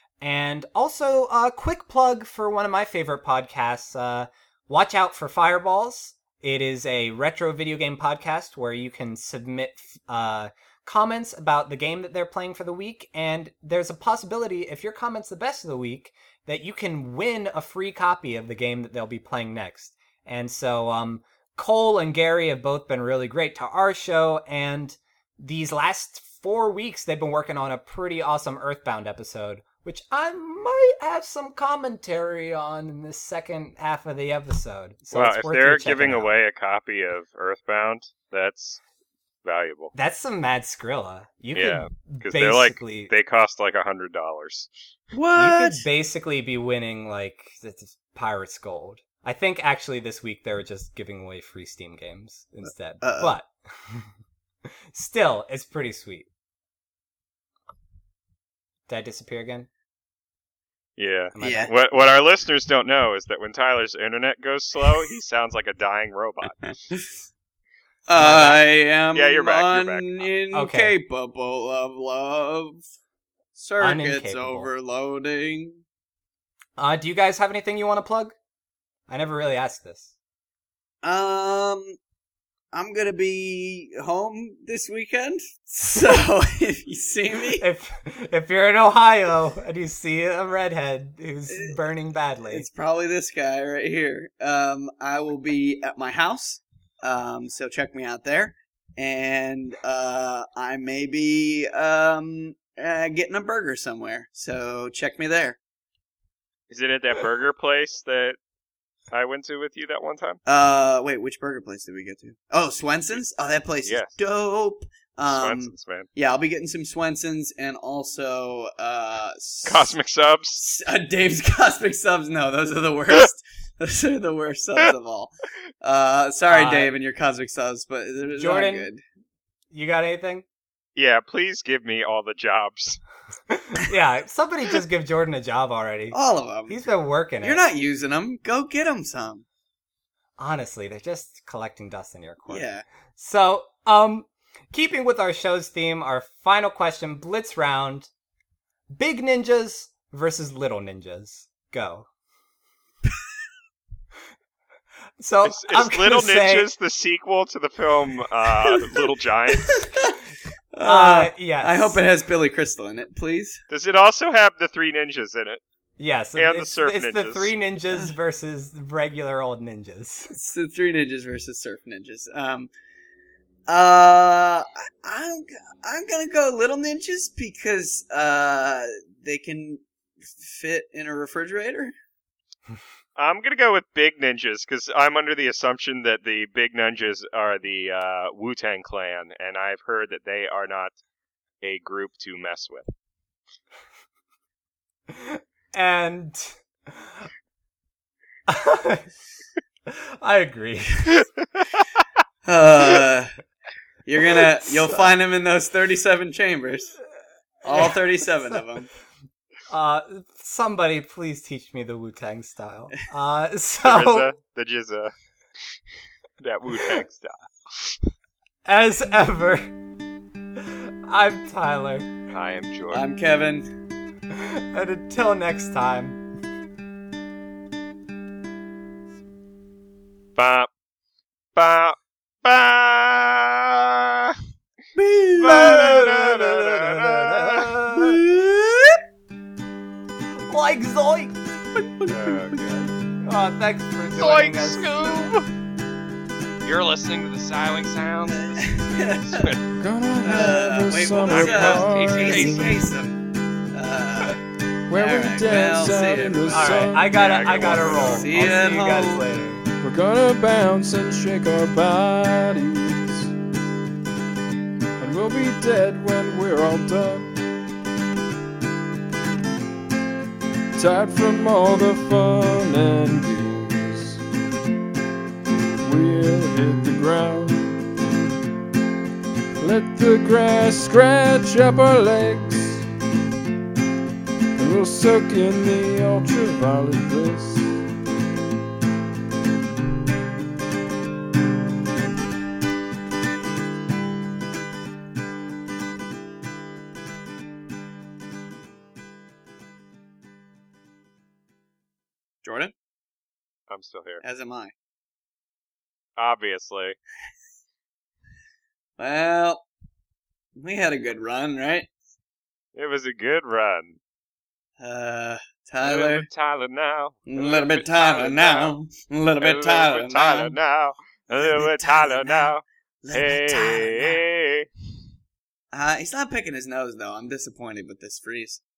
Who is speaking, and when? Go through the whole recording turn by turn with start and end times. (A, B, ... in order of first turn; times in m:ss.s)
0:00.2-0:36.3 A
0:35.1-0:38.8 B
0:39.4-0:39.9 B
0:39.9-0:43.1 A
0:41.5-0:44.7 B
0:45.1-0:45.8 C
0:45.3-0:54.1 A
0:53.0-0:53.3 C
0:54.9-0:56.3 A
0:58.9-0:59.7 A
1:01.0-1:06.8 B
1:01.3-1:01.7 A
1:01.4-1:01.7 C
1:08.1-1:12.8 C
1:08.2-1:08.6 A
1:09.1-1:10.3 B
1:10.5-1:10.9 A
1:13.5-1:15.8 C
1:13.8-1:14.7 A
1:16.8-1:18.3 A
1:19.1-1:20.1 A
1:21.0-1:22.0 C
1:22.7-1:27.6 C
1:27.6-1:32.6 A
1:31.5-1:31.8 C
1:32.5-1:45.6 C
1:46.7-1:48.4 B
1:49.1-1:50.4 B
1:50.4-1:59.9 C
1:53.8-1:54.2 B
1:55.3-1:56.1 B
1:59.6-2:00.6 B
2:00.6-2:09.0 C
2:06.5-2:06.9 A
2:08.3-2:08.9 A
2:09.7-2:10.4 A
2:11.0-2:13.0 B
2:13.5-2:16.2 A
2:16.1-2:16.8 C
2:16.7-2:17.6 A
2:17.4-2:19.4 C
2:20.4-2:28.1 A
2:22.5-2:22.8 C
2:28.9-2:32.1 A
2:35.2-2:36.7 A
2:35.4-2:39.9 B
2:39.6-2:40.2 C
2:40.7-2:43.6 C
2:40.8-2:42.0 A
2:43.7-2:45.6 B
2:46.0-2:50.3 A
2:46.4-2:47.5 B
2:50.3-2:52.7 C
2:53.7-2:59.8 C
3:00.4-3:01.9 C
3:03.2-3:11.0 B
3:11.6-3:12.9 B
3:15.1-3:17.3 A
3:18.5-3:19.1 A
3:19.9-3:21.2 A
3:22.4-3:23.3 C
3:24.0-3:27.0 C
3:24.6-3:25.0 A
3:27.6-3:28.6 A
3:27.6-3:28.9 C
3:29.7-3:34.3 A
3:33.8-3:35.1 B
3:36.4-3:38.0 B
3:38.6-3:39.7 A
3:40.6-3:42.1 A
3:42.3-3:43.1 B
3:42.9-3:43.6 C
3:44.3-3:46.2 A
3:50.4-3:50.7 B
3:51.5-3:54.4 B
3:54.9-3:55.7 C
3:55.4-3:57.7 B
3:55.4-3:58.2 A
3:57.9-3:59.0 C
4:00.4-4:01.4 A
4:02.0-4:02.9 B
4:03.2-4:05.1 A
4:04.1-4:05.5 B
4:06.6-4:09.8 B
4:08.3-4:09.5 C
4:09.8-4:12.7 D
4:10.2-4:13.2 C
4:11.2-4:12.8 B
4:13.7-4:14.4 C
4:14.9-4:17.0 D
4:14.9-4:16.9 C
4:16.5-4:19.6 A
4:17.0-4:18.2 B
4:17.7-4:19.2 C
4:19.8-4:23.3 D
4:25.0-4:27.3 D
4:30.8-4:34.2 D
4:35.8-4:37.8 D
4:39.6-4:42.8 D
4:44.6-4:47.8 D
5:02.4-5:02.7 C
5:03.7-5:04.2 B
5:04.2-5:04.7 C
5:06.2-5:07.0 B
5:09.0-5:09.6 C
5:10.6-5:11.9 C
5:12.7-5:14.0 B
5:14.8-5:16.2 C
5:15.8-5:18.8 B
5:17.3-5:20.6 C
5:19.4-5:24.6 B
5:21.3-5:22.5 C
5:23.0-5:24.2 C
5:25.7-5:28.6 C